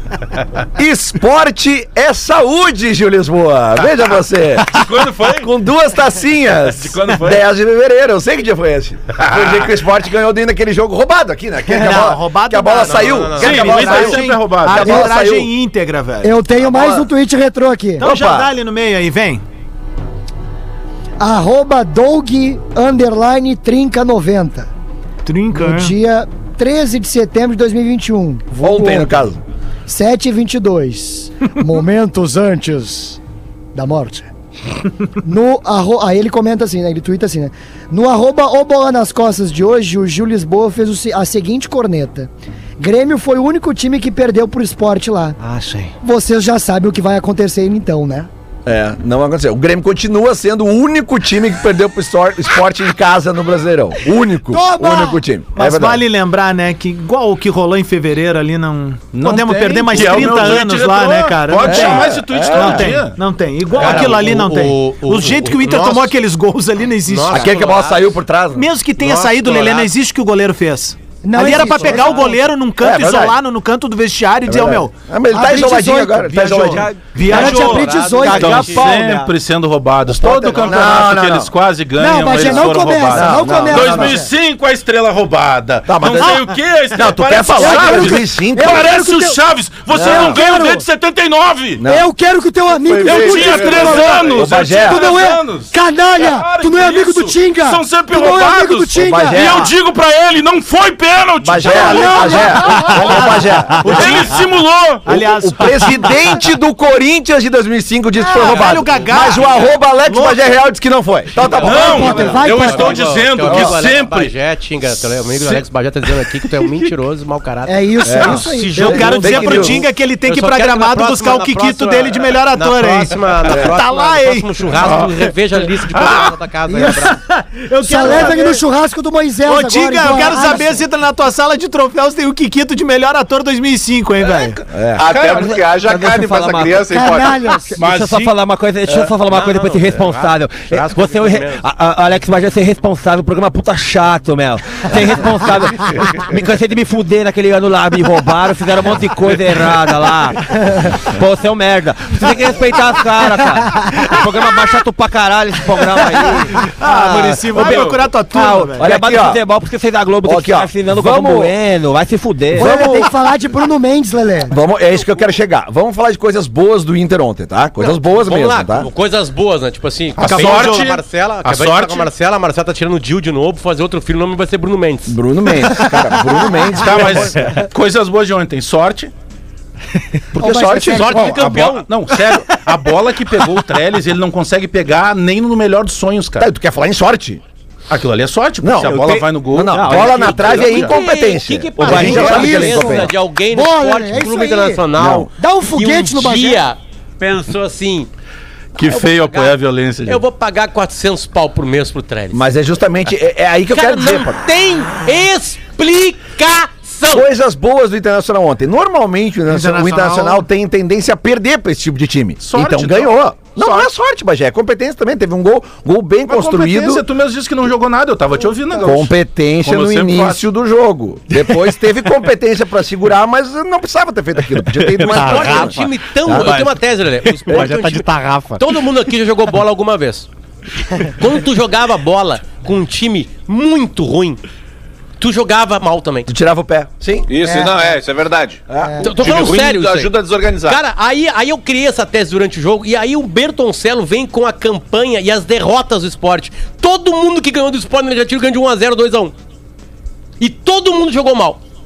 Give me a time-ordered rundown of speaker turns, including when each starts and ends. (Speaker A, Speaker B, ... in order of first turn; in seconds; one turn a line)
Speaker A: 0.8-15.5
Speaker B: 4.7-5.5
Speaker B: 6.6-7.5
Speaker B: 9.2-9.7
Speaker C: 11.7-16.4
Speaker D: 12.7-13.8
Speaker B: 13.4-14.9
Speaker E: 16.2-18.1
Speaker A: 16.6-17.1
Speaker C: 18.0-19.4
Speaker A: 18.0-18.5
Speaker E: 21.2-24.7
Speaker C: 25.2-25.9
Speaker E: 25.5-29.2
Speaker A: 28.6-29.4
Speaker E: 29.9-33.2
Speaker E: 33.8-34.3
Speaker E: 35.2-45.4
Speaker F: 45.4-45.9
Speaker E: 46.0-48.3
Speaker A: 48.7-56.0
Speaker E: 54.5-55.2
Speaker C: 55.5-67.5
Speaker B: 59.1-63.2
Speaker A: 61.6-63.0
Speaker D: 63.8-66.1
Speaker B: 63.9-64.1
Speaker D: 67.0-68.2
Speaker A: 67.3-68.7
Speaker C: 68.5-74.9
Speaker D: 69.0-69.9
Speaker E: 71.2-72.3
Speaker D: 71.5-72.3
Speaker A: 72.8-73.4
Speaker A: 74.5-76.9
Speaker E: 75.3-79.0
Speaker F: 76.4-79.3
Speaker C: 77.1-77.8
Speaker D: 77.2-78.9
Speaker B: 77.4-91.8
Speaker A: 80.1-81.5
Speaker E: 82.0-84.3
Speaker A: 82.3-84.2
Speaker A: 85.9-88.9
Speaker E: 87.6-89.4
Speaker A: 89.9-90.4
Speaker E: 90.0-90.8
Speaker A: 91.8-92.1
Speaker E: 91.8-99.5
Speaker A: 92.7-95.1
Speaker B: 93.0-105.1
Speaker A: 99.0-99.7
Speaker A: 101.4-104.4
Speaker E: 101.6-103.3
Speaker C: 102.2-104.4
Speaker C: 105.1-106.3
Speaker A: 105.1-112.3
Speaker C: 108.2-110.4
Speaker D: 108.5-109.8
Speaker D: 111.3-127.2
Speaker B: 111.6-115.7
Speaker E: 111.6-113.1
Speaker A: 113.5-113.8
Speaker E: 117.7-119.2
Speaker A: 118.0-119.8
Speaker C: 118.7-125.1
Speaker B: 124.8-125.1
Speaker B: 125.9-126.4
Speaker E: 126.7-127.2
Speaker C: 127.5-128.3
Speaker E: 127.7-130.8
Speaker F: 127.9-128.5
Speaker D: 127.9-128.3
Speaker C: 129.4-134.6
Speaker B: 134.2-135.7
Speaker A: 134.7-135.3
Speaker G: 134.9-137.5
Speaker F: 135.8-163.0
Speaker E: 136.9-137.8
Speaker B: 137.8-138.4
Speaker B: 138.9-139.2
Speaker D: 139.3-141.6
Speaker E: 153.6-154.2
Speaker C: 155.9-158.9
Speaker B: 157.5-158.0
Speaker A: 158.8-159.4
Speaker A: 160.2-161.6
Speaker E: 162.5-164.6
Speaker A: 162.5-163.1
Speaker A: 164.5-168.9
Speaker D: 167.8-175.2
Speaker B: 170.2-172.1
Speaker C: 170.2-170.9
Speaker A: 175.1-177.3
Speaker B: 176.8-179.1
Speaker A: 180.3-181.3
Speaker E: 180.4-181.4
Speaker D: 180.7-181.9
Speaker B: 181.0-186.5
Speaker A: 186.4-187.4
Speaker B: 187.9-191.0
Speaker A: 188.6-193.1
Speaker F: 188.8-190.6
Speaker D: 190.5-198.1
Speaker F: 191.8-192.8
Speaker E: 191.8-194.8
Speaker A: 194.9-195.3
Speaker E: 195.4-196.7
Speaker B: 198.8-200.2
Speaker D: 198.8-202.4
Speaker A: 202.3-204.4
Speaker D: 203.7-207.3
Speaker A: 207.1-217.0
Speaker C: 209.5-210.4
Speaker B: 212.4-213.9
Speaker B: 216.3-220.4
Speaker A: 218.8-226.6
Speaker F: 224.6-226.8
Speaker D: 225.1-228.1
Speaker F: 227.3-228.7
Speaker D: 228.6-230.3
Speaker D: 231.0-234.4
Speaker D: 235.2-236.3
Speaker A: 236.3-237.3
Speaker G: 237.3-240.8
Speaker E: 237.4-237.8
Speaker A: 238.7-239.1
Speaker E: 238.8-239.1
Speaker D: 239.0-249.3
Speaker D: 250.4-251.6